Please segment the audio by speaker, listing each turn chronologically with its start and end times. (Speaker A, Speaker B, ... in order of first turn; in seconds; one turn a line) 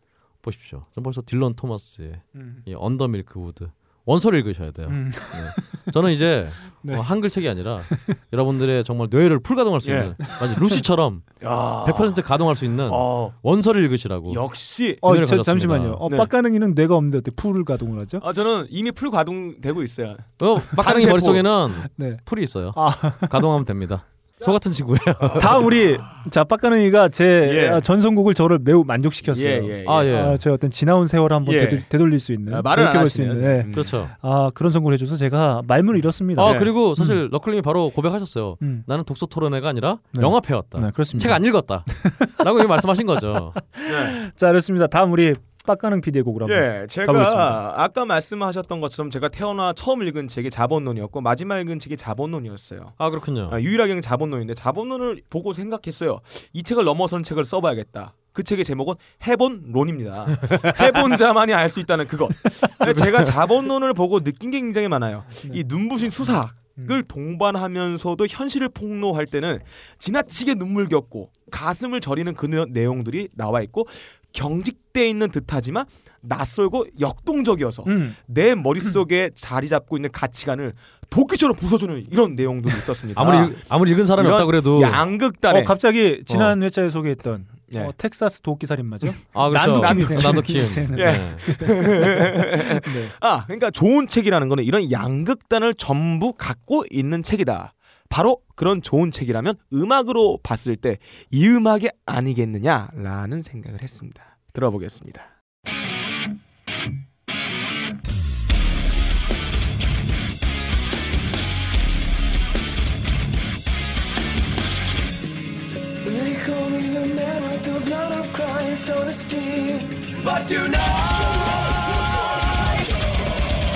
Speaker A: 0.4-14.4
Speaker B: 2.3-2.6
Speaker B: 4.9-5.9
Speaker B: 7.9-8.2
Speaker C: 9.8-10.2
Speaker B: 10.3-10.8
Speaker C: 11.4-12.2
Speaker C: 12.8-13.3
Speaker C: 14.3-15.1
Speaker B: 15.0-18.2
Speaker A: 15.0-16.0
Speaker C: 16.1-16.3
Speaker C: 18.2-21.4
Speaker A: 20.4-25.7
Speaker B: 20.7-22.2
Speaker B: 22.7-23.5
Speaker B: 25.4-37.2
Speaker C: 27.4-27.8
Speaker C: 29.2-30.2
Speaker A: 29.8-30.4
Speaker C: 31.4-31.9
Speaker C: 32.5-34.0
Speaker A: 33.7-34.1
Speaker A: 36.3-43.6
Speaker C: 36.4-36.7
Speaker B: 38.6-38.9
Speaker B: 40.1-42.4
Speaker B: 43.6-47.6
Speaker C: 43.9-44.1
Speaker C: 46.5-85.7
Speaker A: 53.0-53.6
Speaker A: 60.5-60.9
Speaker A: 62.8-63.3
Speaker B: 77.8-78.2
Speaker A: 83.1-85.0
Speaker B: 85.5-93.1
Speaker A: 86.3-86.5
Speaker A: 89.3-91.6
Speaker C: 89.6-105.3
Speaker D: 116.0-122.3